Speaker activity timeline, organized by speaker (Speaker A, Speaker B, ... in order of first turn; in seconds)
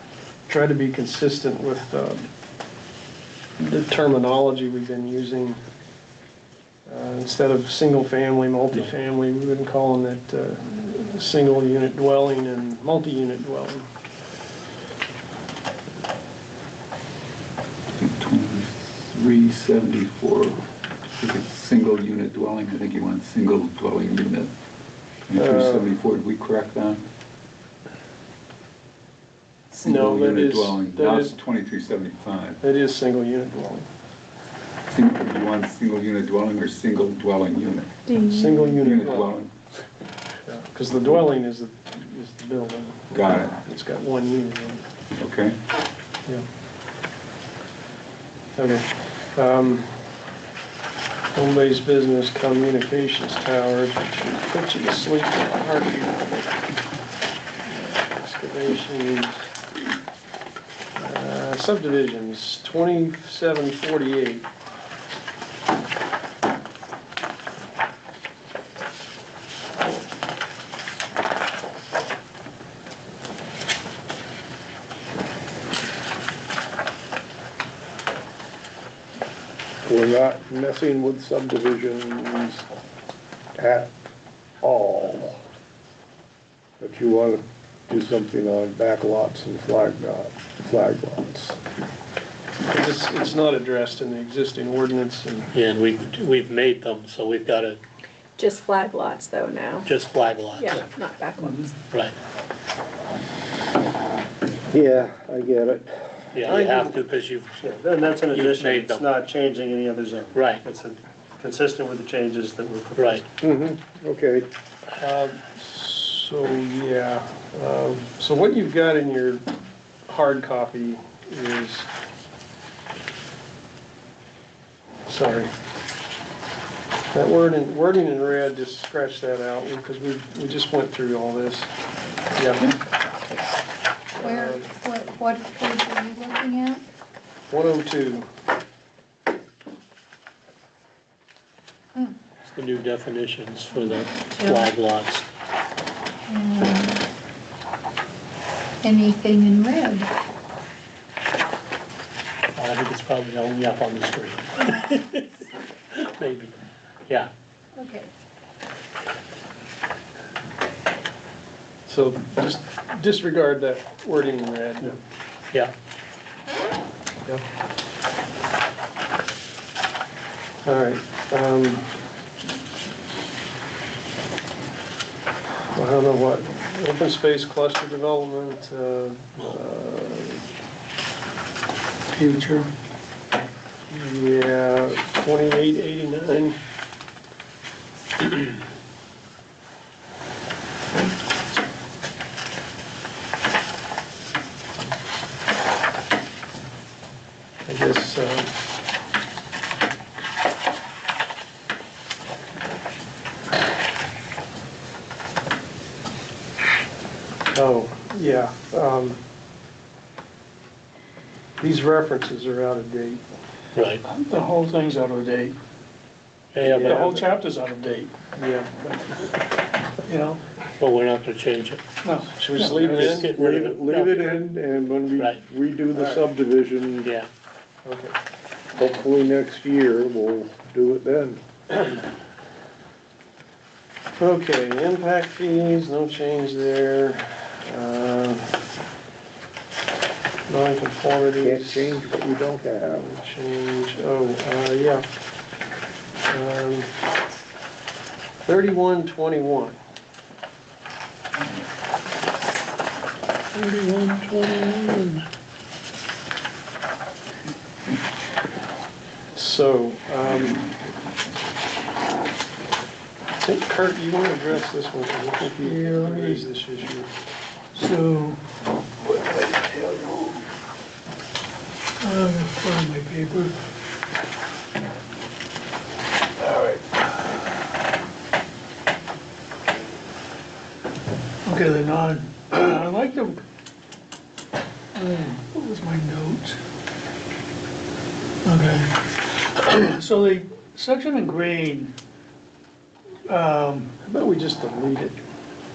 Speaker A: 0.5-2.3, 3.6-5.6, 6.9-13.9, 25.3-25.9, 29.8-31.4, 32.6-33.9, 38.2-39.3, 40.5-44.8, 48.5-49.9, 51.3-56.6, 57.6-59.4, 61.0-64.5, 92.7-95.5, 115.0-119.4, 120.1-121.9, 125.0-125.5, 127.1-131.7, 132.3-132.7, 134.2-134.7, 137.5-138.3, 161.8-164.9, 170.6-171.9, 175.7-180.4, 183.9-186.6, 197.7-198.5, 207.5-209.2, 211.6-213.2, 216.6-217.2, 218.3-218.7, 222.4-223.3, 227.8-228.1, 234.2-238.5, 240.5-242.0, 243.0-245.1, 246.3-246.9, 248.4-249.8, 259.3-260.6, 263.4-267.1, 294.0-295.2
Speaker B: 17.9-20.6, 21.1-24.5, 25.3-27.0, 29.7-32.6, 34.9-38.0, 38.8-39.5, 43.1-43.5, 45.1-45.6, 253.5-255.2, 260.3-260.9
Speaker C: 38.1-38.5, 98.4-99.8, 100.5-101.7
Speaker D: 79.8-82.7, 83.6-83.9, 84.6-85.4, 86.8-91.6, 104.7-106.3, 113.4-114.5, 223.2-227.1, 228.7-231.4, 241.4-243.2
Speaker E: 95.5-97.8, 99.8-100.9, 101.9-102.1, 106.3-107.5, 108.3-109.2, 110.3-110.6, 112.9-113.2, 142.4-145.2, 152.5-155.3, 155.9-156.5, 213.7-214.0, 216.5-217.2, 220.8-221.8, 222.7-224.3, 227.0-227.3
Speaker F: 101.4-101.7, 182.1-182.7, 214.0-215.6, 216.8-218.1, 218.8-219.2, 220.0-220.4, 222.0-223.3, 265.4-266.4, 267.7-268.4, 269.0-270.4, 272.0-273.5, 276.4-277.4, 281.4-283.4, 284.9-286.6, 288.4-291.9, 293.3-293.9
Speaker G: 106.4-107.0, 107.6-113.2
Speaker H: 134.2-136.8, 146.3-146.9, 148.8-150.1, 157.8-158.1